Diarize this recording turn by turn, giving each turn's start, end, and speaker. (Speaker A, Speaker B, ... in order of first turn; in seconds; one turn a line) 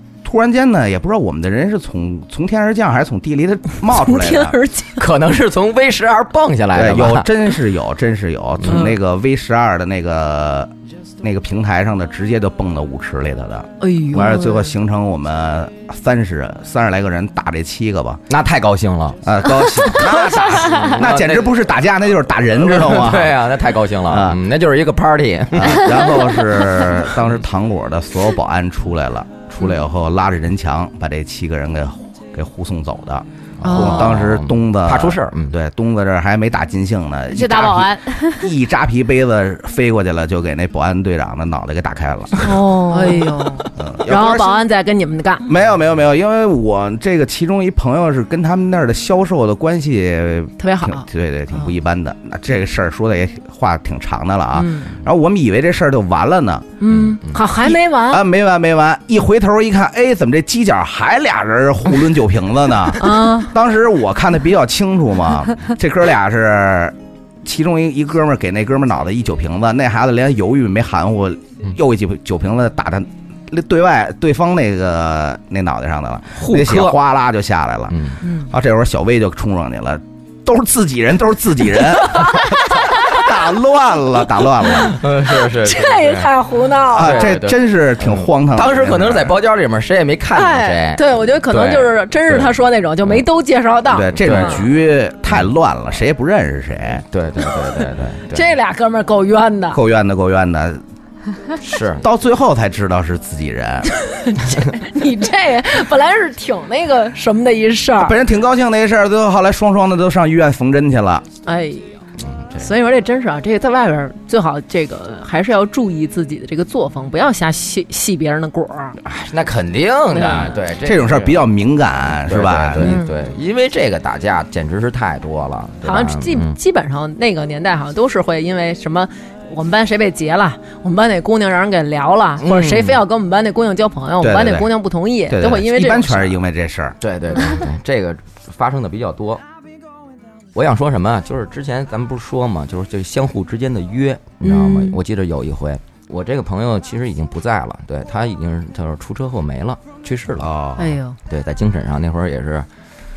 Speaker A: 0.2-4.6
Speaker B: 3.9-5.0
Speaker C: 5.0-7.3
Speaker A: 6.7-10.7
Speaker C: 8.6-8.9
Speaker A: 11.2-18.2
Speaker B: 13.8-14.7
Speaker C: 18.3-19.2
Speaker A: 19.2-23.4
Speaker C: 20.3-21.5
Speaker C: 22.5-26.1
Speaker A: 24.1-24.4
Speaker A: 25.5-42.4
Speaker C: 33.6-35.5
Speaker B: 33.6-34.2
Speaker D: 37.3-38.5
Speaker D: 42.4-43.6
Speaker B: 42.9-45.5
Speaker A: 43.8-44.6
Speaker A: 45.5-56.7
Speaker B: 50.6-51.7
Speaker B: 54.5-55.0
Speaker B: 56.8-58.2
Speaker C: 56.9-57.4
Speaker A: 57.6-85.0
Speaker B: 63.0-63.5
Speaker C: 76.3-77.0
Speaker C: 77.9-78.2
Speaker B: 78.2-78.5
Speaker B: 82.1-83.2
Speaker C: 84.8-86.3
Speaker B: 85.4-87.3
Speaker C: 86.9-93.2
Speaker A: 86.9-89.4
Speaker B: 90.3-94.6
Speaker A: 93.9-97.0
Speaker C: 94.2-94.6
Speaker C: 97.0-98.5
Speaker B: 98.3-99.8
Speaker A: 99.7-100.8
Speaker C: 101.6-102.0
Speaker A: 102.0-103.9
Speaker B: 104.0-108.2
Speaker A: 108.0-111.2
Speaker B: 111.4-112.0
Speaker C: 112.2-112.7
Speaker B: 112.6-119.0
Speaker C: 119.0-121.5
Speaker B: 120.1-120.5
Speaker A: 120.3-123.0
Speaker C: 122.1-126.5
Speaker B: 122.8-123.1
Speaker B: 125.8-136.3
Speaker C: 132.4-133.0
Speaker A: 134.2-134.7
Speaker A: 135.3-137.0
Speaker C: 137.0-139.4
Speaker C: 140.5-150.5
Speaker B: 144.4-145.0
Speaker A: 150.4-150.9
Speaker B: 150.8-151.2
Speaker C: 151.2-152.7